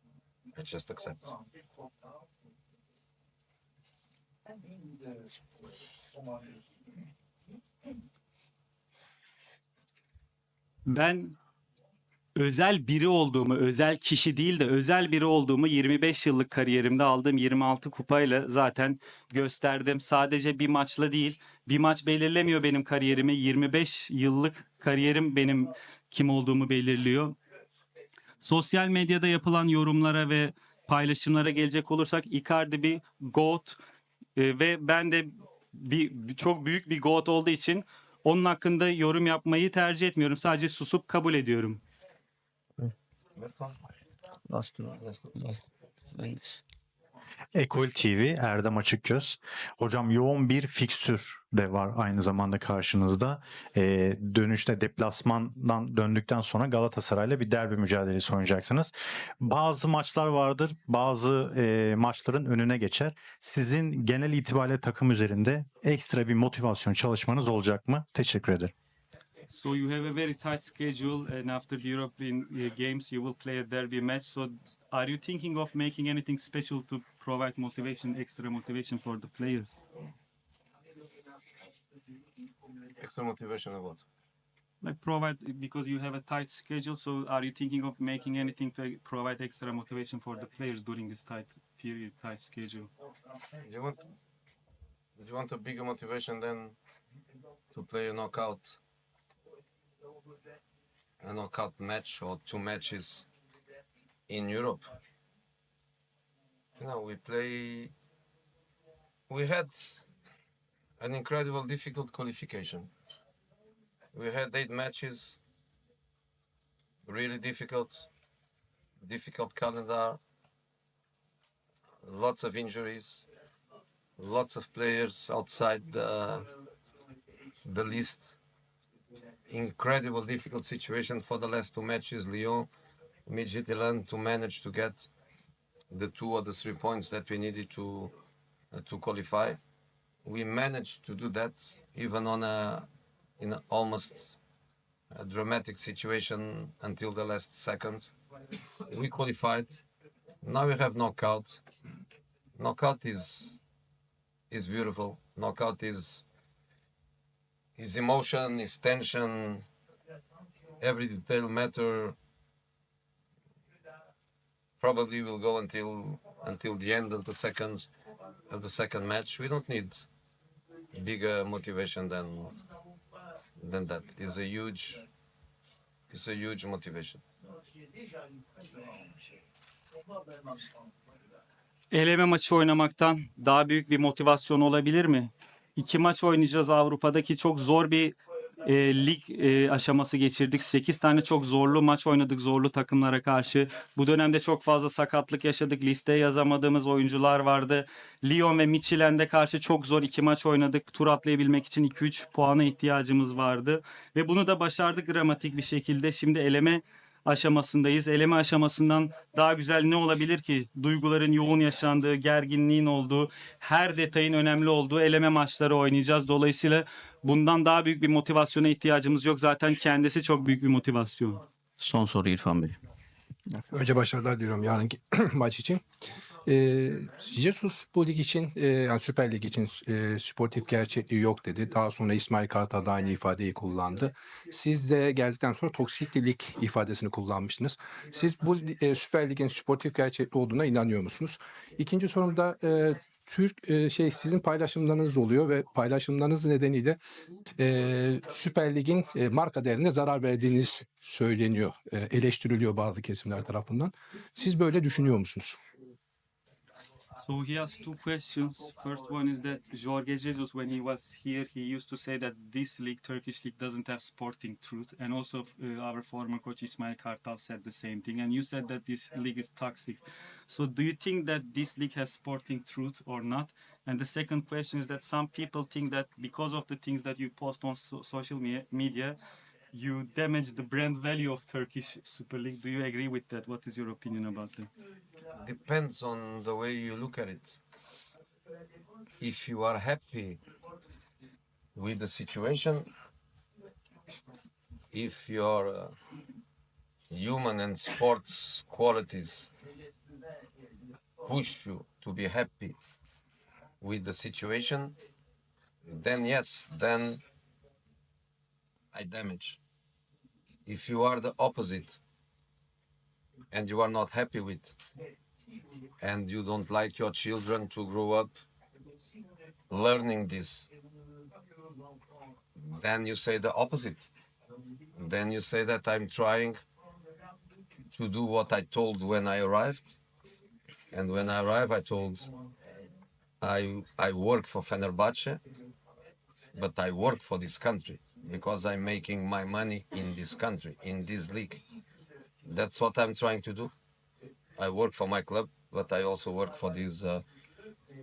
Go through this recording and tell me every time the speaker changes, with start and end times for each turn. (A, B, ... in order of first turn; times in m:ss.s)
0:00.5-0:01.3 A
0:10.8-0:11.4 B
0:12.3-0:27.4 B
0:28.4-0:33.8 B
0:34.4-0:41.8 B
0:43.4-0:43.7 A
0:44.5-0:45.6 C
0:46.1-0:46.6 C
0:47.5-1:08.7 D
1:09.5-1:19.8 B
1:23.0-1:24.0 A
1:24.8-1:32.9 B
1:33.5-1:34.0 A
1:35.2-1:36.8 A
1:37.7-1:38.8 A
1:41.2-1:43.3 A
1:44.3-1:44.9 A
1:46.8-1:47.9 A
1:49.3-1:50.1 A
1:51.0-1:52.9 A
1:54.1-1:55.4 A
1:57.0-1:58.1 A
1:59.0-2:00.2 A
2:02.0-2:03.3 A
2:04.2-2:06.5 A
2:07.6-2:08.4 A
2:09.5-2:12.7 A
2:13.2-2:15.1 A
2:15.9-2:18.2 A
2:18.7-2:19.6 A
2:20.2-2:22.9 A
2:23.4-2:24.4 A
2:25.1-2:28.1 A
2:28.9-2:29.8 A
2:30.4-2:31.6 A
2:32.6-2:33.6 A
2:34.5-2:36.2 A
2:37.8-2:39.6 A
2:40.8-2:42.2 A
2:44.8-2:47.9 A
2:48.5-2:50.1 A
2:50.9-2:52.6 A
2:53.6-2:55.0 A
2:56.1-2:57.2 A
3:01.9-3:41.4 B
3:41.8-3:42.7 C
3:43.7-3:45.8 E
3:46.4-4:07.0 E
4:07.6-4:15.6 E
4:17.2-4:39.2 B
4:39.7-4:44.7 B
4:45.4-4:47.6 A
4:49.2-4:50.4 A
4:51.7-4:52.9 A
4:54.9-4:55.9 A
4:57.1-4:59.5 A
5:01.2-5:02.8 A
5:03.8-5:05.0 A
5:05.8-5:07.2 A
5:08.9-5:09.6 A
5:10.6-5:12.0 A
5:13.5-5:14.8 A
5:16.0-5:18.4 A
5:19.7-5:20.7 A
5:22.6-5:24.1 A
5:25.0-5:26.6 A
5:27.9-5:30.0 A
5:30.9-5:32.3 A
5:33.4-5:35.4 A
5:36.5-5:41.6 A
5:42.4-5:43.7 A
5:44.6-5:47.2 A